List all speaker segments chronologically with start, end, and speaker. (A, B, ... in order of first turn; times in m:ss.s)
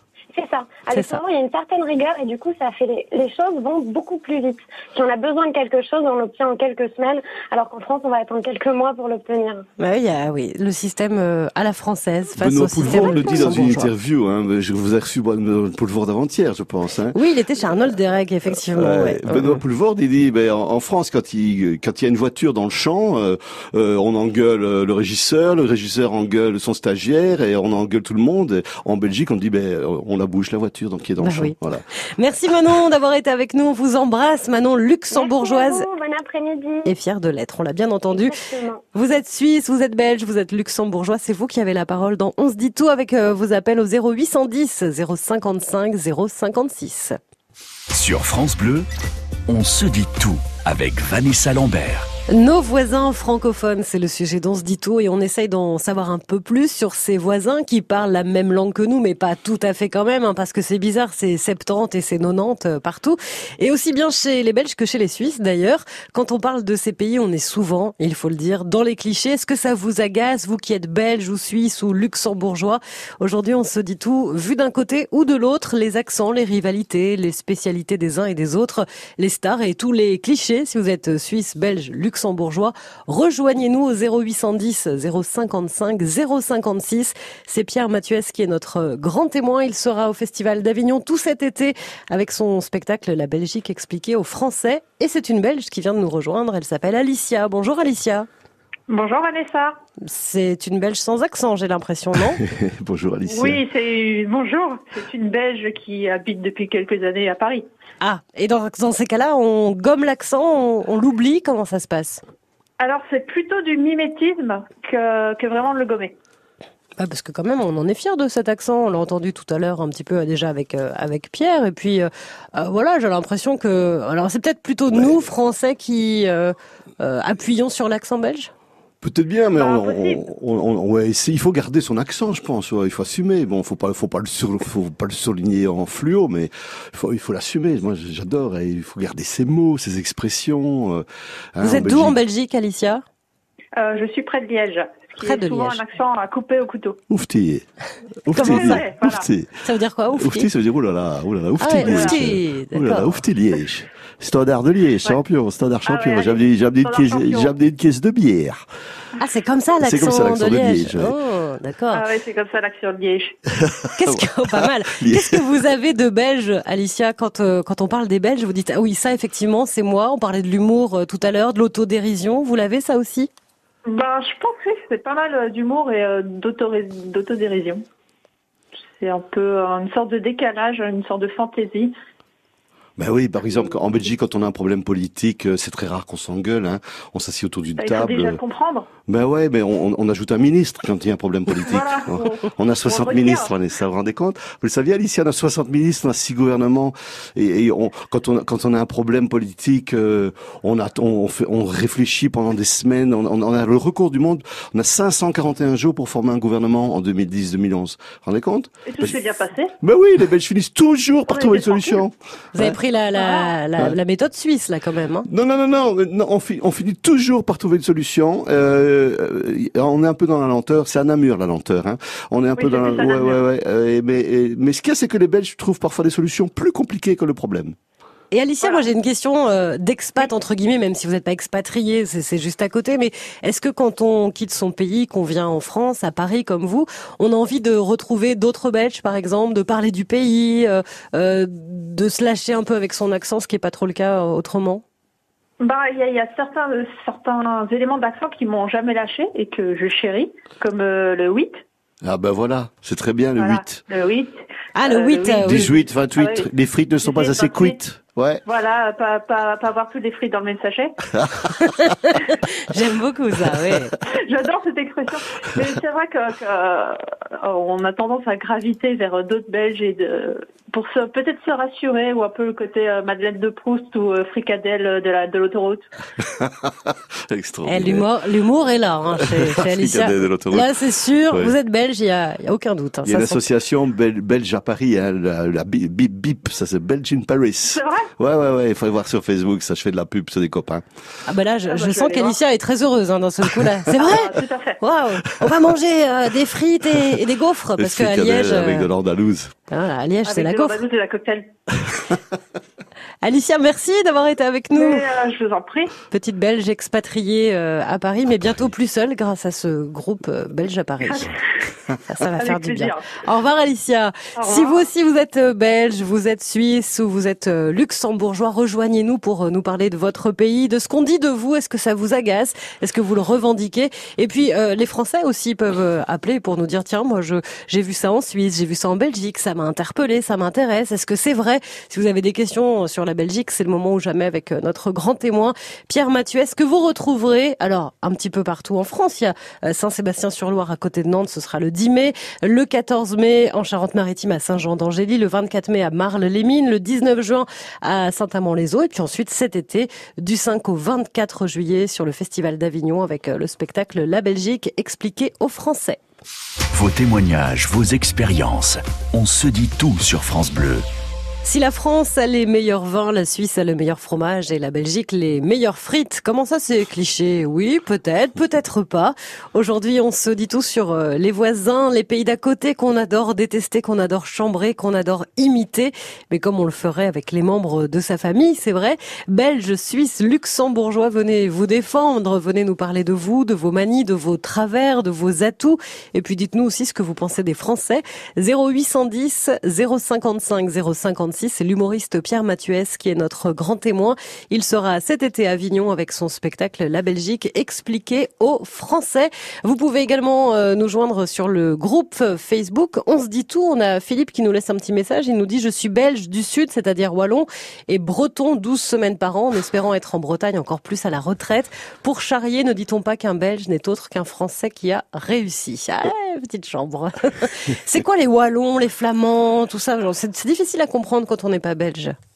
0:00.4-0:09.7 A
0:00.9-0:01.2 B
0:09.8-0:13.9 B
0:12.4-0:17.2 C
0:17.2-0:19.6 B
0:18.5-0:31.8 C
0:31.2-0:31.6 B
0:32.2-0:35.9 B
0:35.2-0:36.9 A
0:36.9-0:38.3 B
0:38.1-0:38.8 A
0:38.9-0:47.2 B
0:47.9-0:48.9 D
0:49.5-0:52.1 D
0:52.3-1:38.3 B
1:38.9-1:39.8 E
1:40.0-1:42.4 B
1:42.4-1:43.6 C
1:43.3-1:47.7 E
1:48.0-1:52.2 B
1:52.8-1:56.2 E
1:57.0-2:08.5 B
2:09.0-2:22.2 C
2:09.6-2:10.2 E
2:21.6-2:23.0 B
2:23.8-2:27.0 E
2:25.2-2:25.8 B
2:27.1-2:27.7 C
2:28.3-2:29.6 C
2:28.3-2:28.9 B
2:28.3-2:29.3 E
2:29.6-2:30.5 B
2:30.2-2:38.6 C
2:31.6-2:33.2 B
2:31.8-2:32.2 E
2:35.8-2:37.5 E
2:39.2-2:42.1 B
2:39.8-2:41.1 C
2:41.9-2:43.4 E
2:43.6-2:45.5 C
2:44.0-2:53.3 B
2:53.9-2:57.8 E
2:59.0-3:02.0 E
3:03.0-3:08.4 C
3:07.8-3:08.9 E
3:09.1-3:29.2 C
3:11.6-3:13.5 E
3:28.8-3:29.8 E
3:29.8-3:32.8 C
3:31.3-3:32.0 E
3:32.6-3:35.3 B
3:33.2-3:33.6 E
3:35.3-3:47.8 C
3:42.6-3:43.4 E
3:48.3-4:04.8 B
4:05.6-4:11.6 E
4:12.0-4:13.8 C
4:13.4-4:16.5 E
4:14.8-4:15.7 B
4:15.4-4:18.4 C
4:17.0-4:17.8 E
4:18.4-4:21.0 E
4:21.1-4:21.6 C
4:21.6-4:23.9 B
4:24.1-4:35.9 E
4:36.2-4:38.1 C
4:37.7-4:43.4 B
4:39.2-4:40.8 C
4:41.3-4:41.6 C
4:43.0-4:50.8 C
4:47.7-4:48.1 E
4:51.3-4:58.9 B
4:51.7-4:52.4 E
4:53.9-4:54.8 E
4:57.8-4:59.5 C
4:59.7-5:00.8 B
5:00.2-5:01.5 E
5:03.2-5:05.1 B
5:04.7-5:06.0 E
5:06.1-5:11.4 B
5:11.0-5:11.4 E
5:12.0-5:56.0 B
5:12.4-5:13.1 E
5:14.4-5:14.9 E
5:56.7-6:00.9 D
6:01.4-7:02.2 B